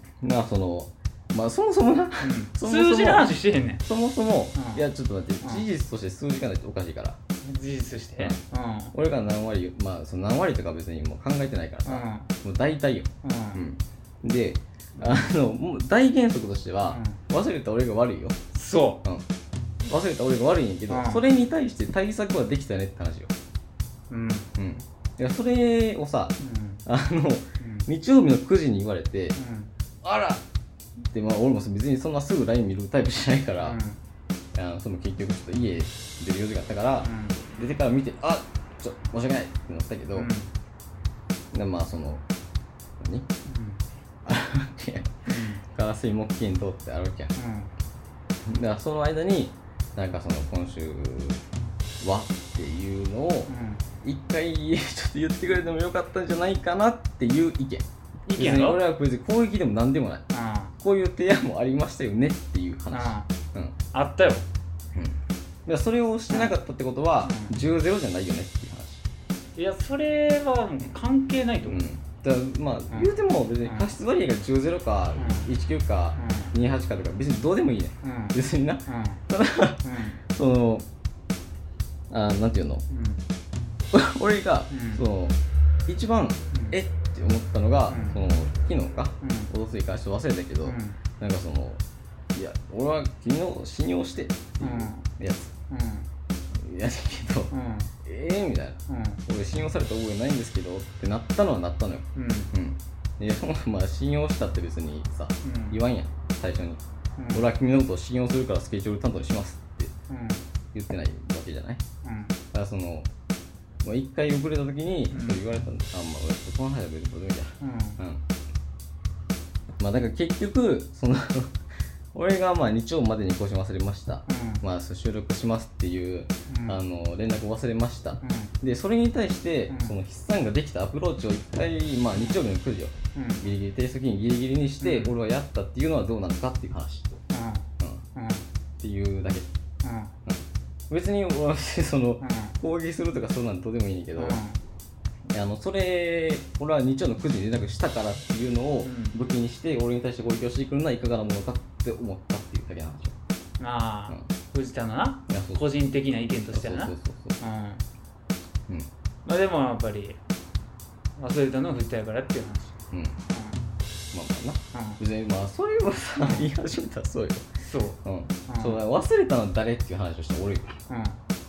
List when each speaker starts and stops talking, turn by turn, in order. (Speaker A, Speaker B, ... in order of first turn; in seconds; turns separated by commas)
Speaker A: 0.2-7.2, Speaker B: 2.2-3.8, Speaker B: 4.5-4.8, Speaker B: 7.4-8.9, Speaker A: 8.9-18.4, Speaker B: 11.8-12.3, Speaker B: 13.2-13.7, Speaker B: 14.9-15.3, Speaker B: 16.9-17.2, Speaker B: 18.5-19.0, Speaker A: 19.9-23.3, Speaker B: 20.9-21.2, Speaker B: 24.1-24.5, Speaker A: 24.6-29.4, Speaker B: 26.4-26.8, Speaker B: 27.6-27.9, Speaker B: 29.4-29.7, Speaker A: 30.0-30.4, Speaker A: 31.0-33.8, Speaker B: 33.6-34.0, Speaker A: 34.5-40.3, Speaker B: 37.0-37.4, Speaker B: 40.1-40.5, Speaker A: 41.5-42.2, Speaker A: 43.0-43.3, Speaker B: 43.5-43.8, Speaker A: 44.2-47.3, Speaker B: 45.3-45.6, Speaker B: 47.4-47.7, Speaker A: 48.4-51.4, Speaker A: 52.0-53.5, Speaker B: 53.5-53.8, Speaker A: 54.0-60.2, Speaker B: 58.3-58.8, Speaker B: 60.3-60.7, Speaker A: 60.8-63.8, Speaker B: 62.9-63.3, Speaker B: 63.9-64.5, Speaker A: 64.9-69.0, Speaker B: 67.2-67.5, Speaker B: 69.6-71.8, Speaker A: 71.7-80.9, Speaker B: 73.6-73.9, Speaker B: 75.2-75.5, Speaker B: 76.2-76.5, Speaker B: 78.0-79.2, Speaker B: 79.8-80.2, Speaker A: 82.1-82.8, Speaker B: 82.9-83.2, Speaker A: 83.9-91.8, Speaker B: 84.7-85.0, Speaker B: 87.9-88.2, Speaker B: 89.2-89.5, Speaker B: 90.6-91.0, Speaker A: 92.3-95.5, Speaker B: 94.6-95.1, Speaker B: 95.7-96.1, Speaker A: 96.5-97.5, Speaker B: 97.5-97.9, Speaker A: 98.0-106.8, Speaker B: 98.9-99.2, Speaker B: 102.2-102.5, Speaker B: 105.4-105.8, Speaker B: 107.2-107.5, Speaker A: 107.3-109.9, Speaker B: 110.1-110.4, Speaker A: 110.7-111.8, Speaker B: 112.0-112.3, Speaker A: 112.5-113.1, Speaker A: 113.8-118.2, Speaker B: 115.1-115.4, Speaker B: 117.6-118.0, Speaker A: 119.8-121.5, Speaker A: 122.1-137.2, Speaker B: 124.3-124.6, Speaker B: 126.5-126.8, Speaker B: 128.2-128.5, Speaker B: 129.7-130.0, Speaker B: 132.1-132.4, Speaker B: 133.2-133.4, Speaker B: 134.8-135.1, Speaker B: 137.3-138.5, Speaker A: 138.8-139.5, Speaker B: 139.8-140.1, Speaker A: 140.3-144.4, Speaker B: 142.2-142.6, Speaker B: 144.2-144.6, Speaker A: 145.3-153.2, Speaker B: 148.8-149.2, Speaker B: 153.6-157.8, Speaker A: 155.3-155.6, Speaker A: 156.5-157.4, Speaker B: 159.2-160.2, Speaker B: 161.2-162.8, Speaker B: 163.3-163.6, Speaker A: 164.1-167.5, Speaker B: 164.7-165.0, Speaker B: 166.2-166.5, Speaker B: 167.6-168.8, Speaker A: 168.0-170.8, Speaker B: 170.9-171.2